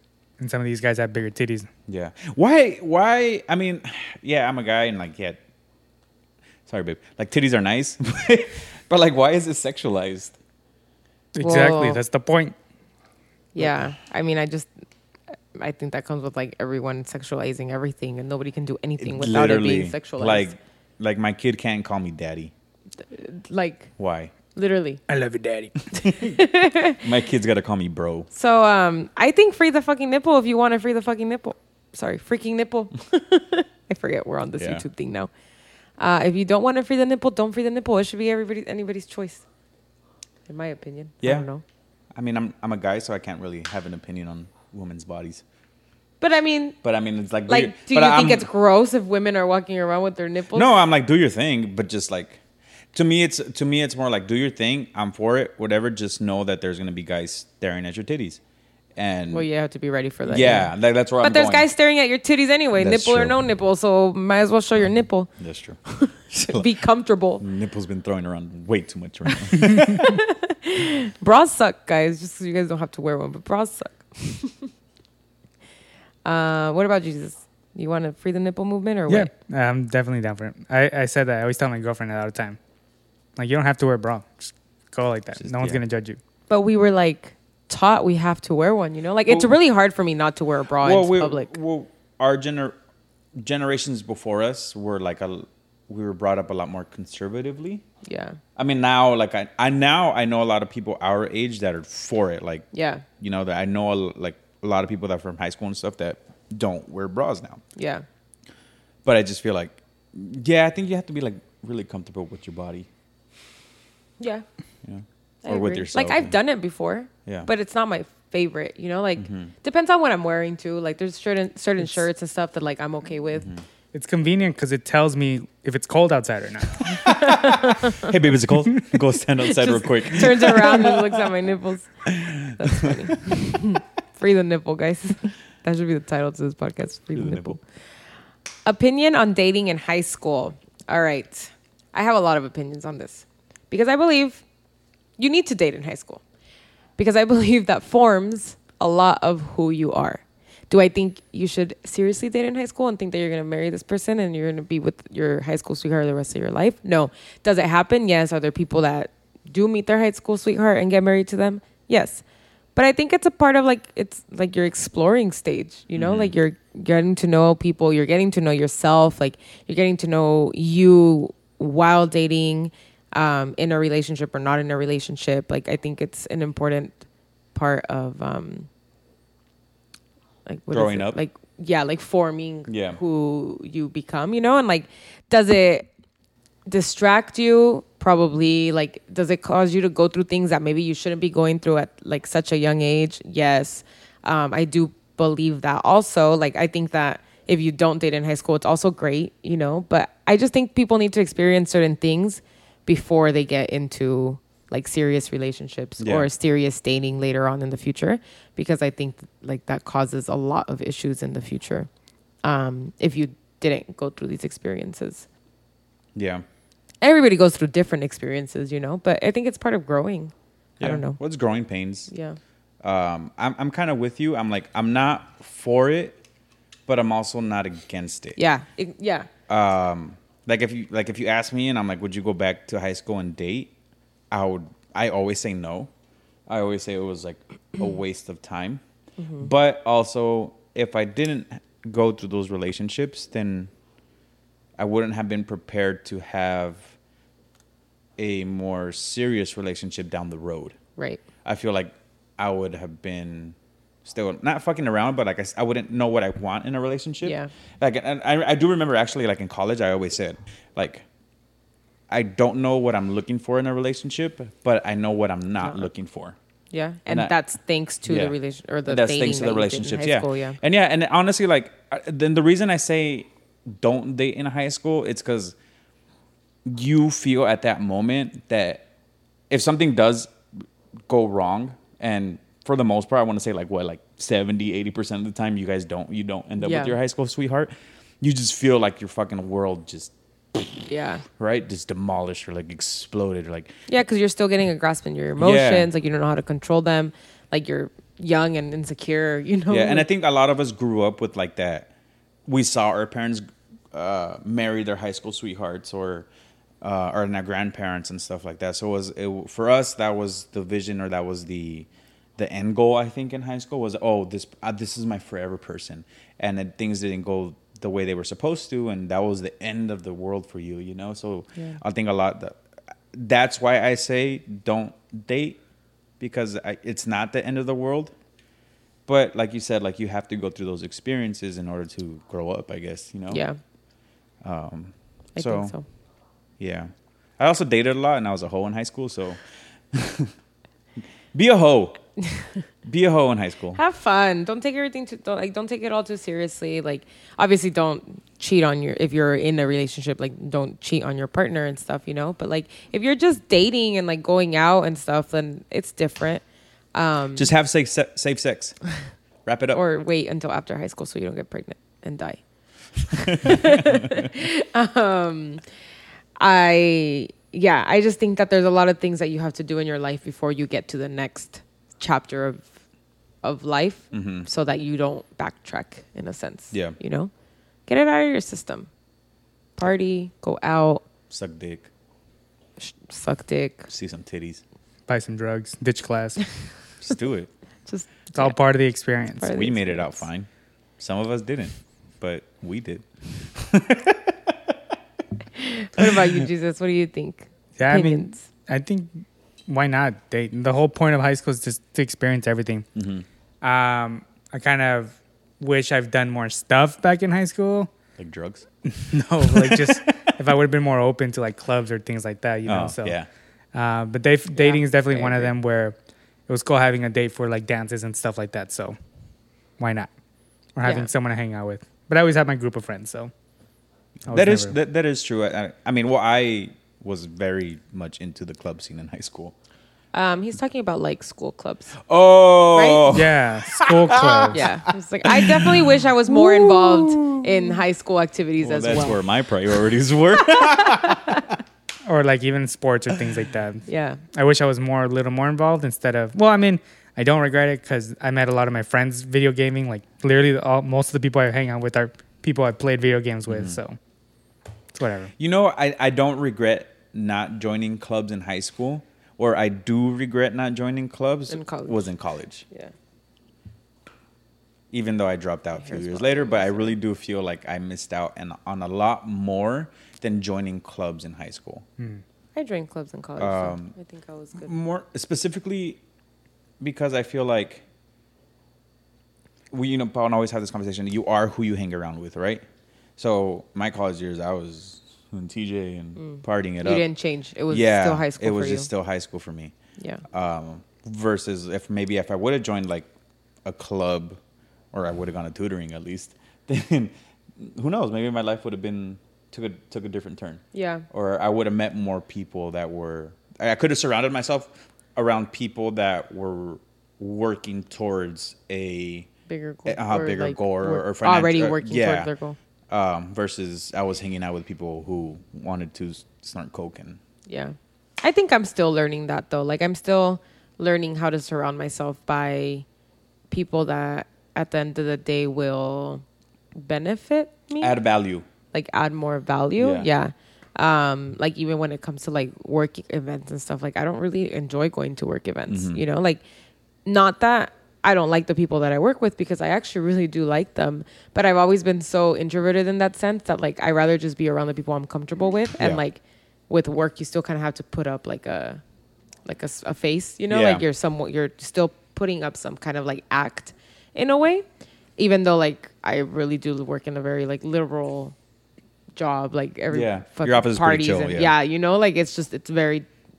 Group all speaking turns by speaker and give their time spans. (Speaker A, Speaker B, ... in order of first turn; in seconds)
Speaker A: 0.4-1.7, 11.3-12.5, 25.1-25.9, 79.1-82.6, 83.4-86.2, 123.9-127.0, 385.1-386.4, 388.3-389.6, 397.8-402.9, 403.6-407.9, 408.9-413.1, 413.7-415.9, 416.5-418.9, 419.8-420.1, 420.8-423.3, 424.3-424.7, 433.1-434.6, 442.1-454.0, 454.9-455.3
Speaker B: 1.9-5.4, 6.7-10.3, 19.0-22.5, 24.0-24.3, 25.9-26.4, 27.0-28.3, 34.6-34.8, 42.1-45.4, 46.8-48.5, 50.5-52.4, 52.9-58.4, 59.0-59.5, 60.2-61.7, 62.8-63.4, 65.4-66.7, 67.4-70.1, 85.4-85.8, 89.3-89.5, 90.8-92.8, 93.3-97.8, 98.5-102.7, 103.2-107.6, 109.0-112.9, 114.8-116.4, 119.2-119.5, 126.9-131.2, 132.1-133.6, 137.1-137.6, 165.9-166.3, 180.7-181.2, 182.7-183.0, 206.0-206.3, 216.1-216.4, 220.8-222.1, 222.8-226.2, 226.9-228.4, 229.5-233.7, 234.3-235.9, 236.5-238.8, 239.4-243.7, 244.8-246.9, 248.2-250.8, 251.4-261.0, 262.1-266.4, 267.1-267.4, 268.1-275.5, 276.6-278.9, 279.5-280.3, 281.1-290.9, 291.4-293.7, 295.4-295.9, 299.7-301.9, 302.4-306.3, 306.8-322.6, 323.1-325.6, 326.2-328.1, 329.1-333.4, 334.4-335.7, 336.6-339.4, 339.9-340.3, 341.3-342.0, 342.8-343.8, 357.3-358.8, 359.4-359.8, 363.3-364.3, 374.1-374.5, 376.7-377.0, 381.3-381.9, 383.9-384.6, 387.0-387.5, 389.5-390.5, 391.0-394.8, 396.0-396.4, 402.9-403.2, 408.2-408.6, 409.4-410.3, 412.6-413.3, 424.2-429.5, 432.0-434.7, 435.2-437.7, 438.6-441.5, 453.5-453.8, 455.4-462.6, 464.9-471.8, 473.4-473.9, 474.6-476.0, 476.8-477.8, 479.7-482.6, 483.2-487.1, 487.7-489.7, 490.3-493.1, 493.6-494.4, 494.9-509.3, 509.9-512.3, 512.9-517.2, 527.8-528.5, 529.8-530.1, 535.7-536.0, 550.5-550.8, 559.9-561.5
Speaker C: 11.4-12.0, 13.5-14.7, 15.5-20.5, 23.1-23.9, 24.5-25.0, 26.0-27.0, 28.3-35.3, 36.0-39.4, 40.5-41.6, 46.2-46.8, 47.5-50.7, 59.3-65.3, 66.0-67.4, 69.9-74.7, 76.2-79.3, 86.5-91.5, 98.0-98.4, 102.7-103.0, 107.8-108.0, 115.4-123.5, 127.1-128.1, 129.4-131.9, 132.5-137.6, 138.6-144.4, 145.2-146.2, 147.0-162.2, 162.8-177.0, 177.5-178.7, 180.4-185.9, 186.7-211.9, 212.4-215.2, 217.0-221.2, 222.1-222.4, 228.3-229.3, 239.2-239.5, 251.0-251.2, 257.2-257.5, 265.6-265.9, 266.7-270.6, 286.6-286.9, 290.9-291.2, 293.9-300.1, 333.3-333.6, 335.4-335.8, 343.7-356.4, 356.9-357.5, 359.7-362.4, 363.1-365.6, 366.4-372.7, 373.4-377.3, 377.9-378.9, 379.8-381.0, 382.8-383.9, 387.9-388.6, 389.4-390.2, 395.5-398.4, 414.5-415.5, 420.8-421.1, 430.1-432.0, 432.7-433.2, 434.5-439.2, 440.4-441.4, 443.9-444.2, 461.5-462.1, 465.8-466.9, 472.5-474.7, 486.2-488.9, 490.0-490.2, 500.7-501.0, 509.5-512.6, 517.5-522.8, 523.5-526.2, 526.7-528.0, 528.7-536.4, 537.0-548.8, 549.5-554.6, 555.2-558.3, 559.1-563.1